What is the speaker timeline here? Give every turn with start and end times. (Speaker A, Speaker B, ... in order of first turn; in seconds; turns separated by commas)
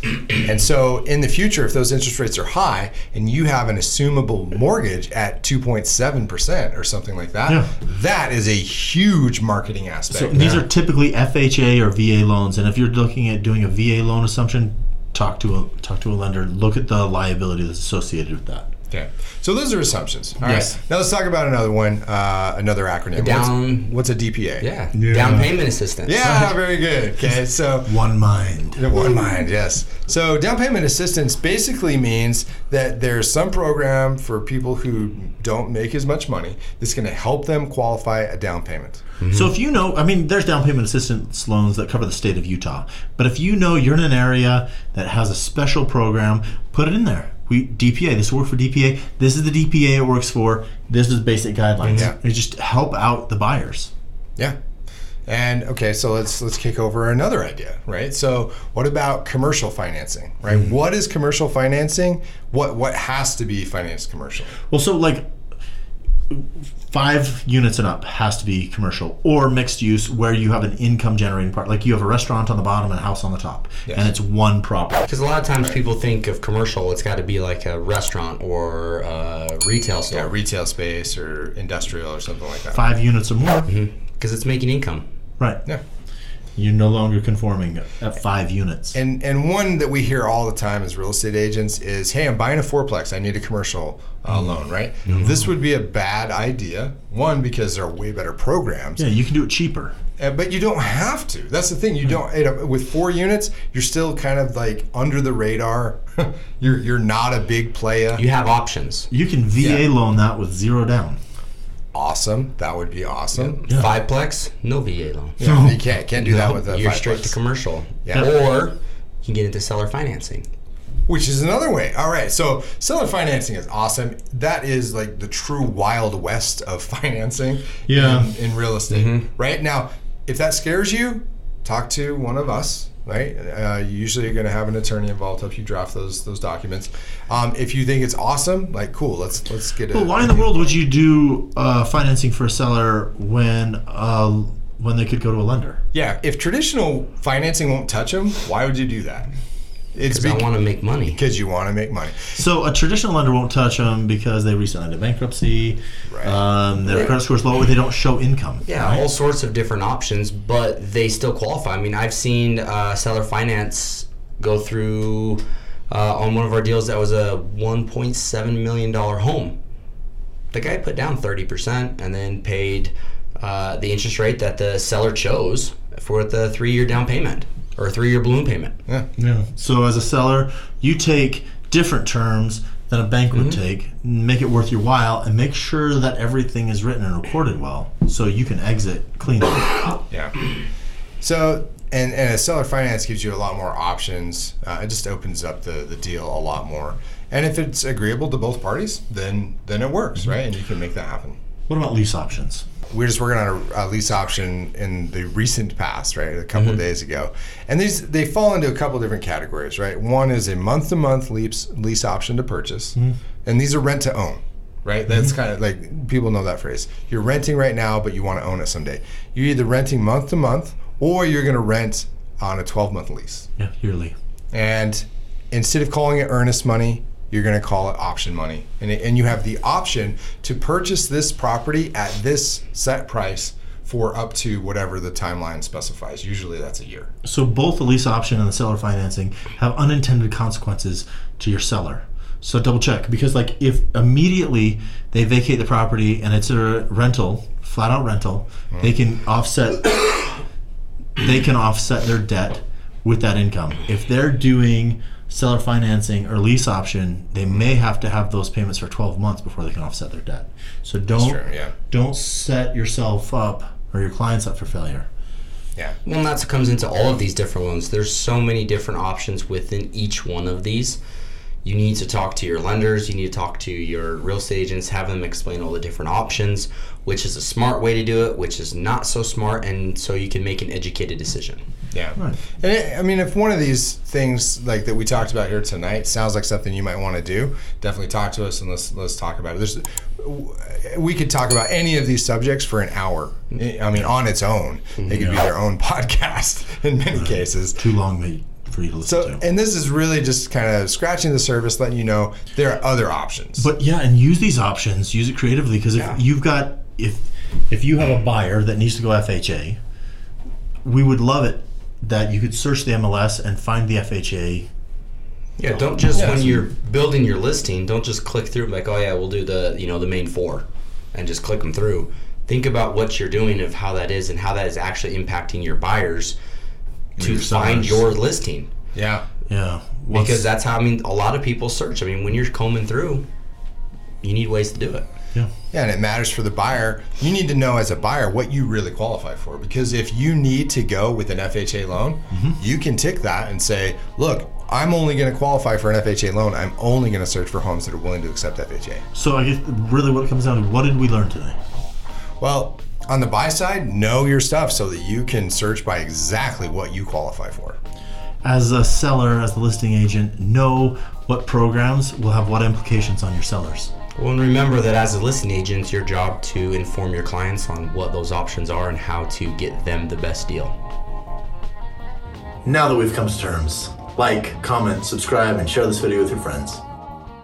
Speaker A: 0.4-10.7, Speaker B: 7.5-7.7, Speaker B: 10.1-18.7, Speaker A: 18.9-24.7, Speaker B: 20.4-20.8, Speaker C: 23.1-24.0, Speaker C: 24.6-26.5, Speaker B: 24.9-25.5, Speaker A: 26.1-28.0, Speaker B: 27.9-28.9, Speaker A: 28.7-39.0, Speaker C: 39.2-39.5, Speaker B: 39.3-53.9, Speaker C: 51.8-52.1, Speaker A: 55.3-64.5, Speaker B: 64.7-65.3, Speaker B: 66.3-75.1, Speaker A: 73.9-74.1, Speaker C: 75.0-80.3, Speaker A: 80.1-82.9, Speaker B: 82.7-83.7, Speaker C: 83.7-85.1, Speaker B: 86.6-89.0, Speaker A: 88.9-99.0, Speaker B: 95.1-95.4, Speaker B: 99.0-100.0, Speaker A: 100.2-108.2, Speaker C: 108.2-109.1, Speaker B: 109.1-111.2, Speaker A: 109.6-109.9, Speaker A: 111.9-113.6, Speaker C: 113.3-115.4, Speaker B: 113.7-113.9, Speaker A: 115.4-117.4, Speaker B: 115.4-115.8, Speaker C: 116.1-120.5, Speaker A: 118.0-118.3, Speaker A: 121.1-140.8, Speaker B: 127.9-128.3, Speaker C: 128.9-129.2, Speaker B: 139.9-145.8, Speaker A: 145.9-149.3, Speaker A: 149.9-150.5, Speaker C: 150.1-151.2, Speaker A: 151.1-152.3, Speaker B: 152.3-159.0, Speaker A: 156.1-156.4, Speaker C: 158.7-169.6, Speaker C: 170.5-178.8, Speaker B: 179.2-189.8, Speaker C: 183.3-183.6, Speaker A: 191.2-201.4, Speaker B: 201.7-202.7, Speaker A: 202.9-223.5, Speaker B: 223.6-224.2, Speaker A: 224.5-237.1, Speaker B: 237.2-250.0, Speaker B: 251.2-265.1, Speaker A: 261.1-261.7, Speaker C: 266.1-271.0, Speaker C: 271.6-281.6, Speaker A: 281.9-297.8, Speaker C: 295.0-295.4, Speaker B: 297.2-299.4, Speaker A: 299.1-303.7, Speaker B: 303.6-309.8, Speaker C: 305.9-306.2, Speaker B: 310.8-314.7, Speaker C: 315.6-326.4, Speaker A: 316.1-316.6, Speaker B: 327.2-328.1, Speaker C: 327.2-328.7, Speaker A: 328.9-329.2, Speaker B: 329.5-330.5, Speaker C: 330.1-333.3, Speaker C: 334.2-335.1, Speaker A: 335.7-349.0, Speaker B: 342.3-342.6, Speaker B: 349.1-351.6, Speaker A: 352.4-357.8, Speaker B: 358.4-363.9, Speaker C: 364.2-370.8, Speaker B: 372.6-376.8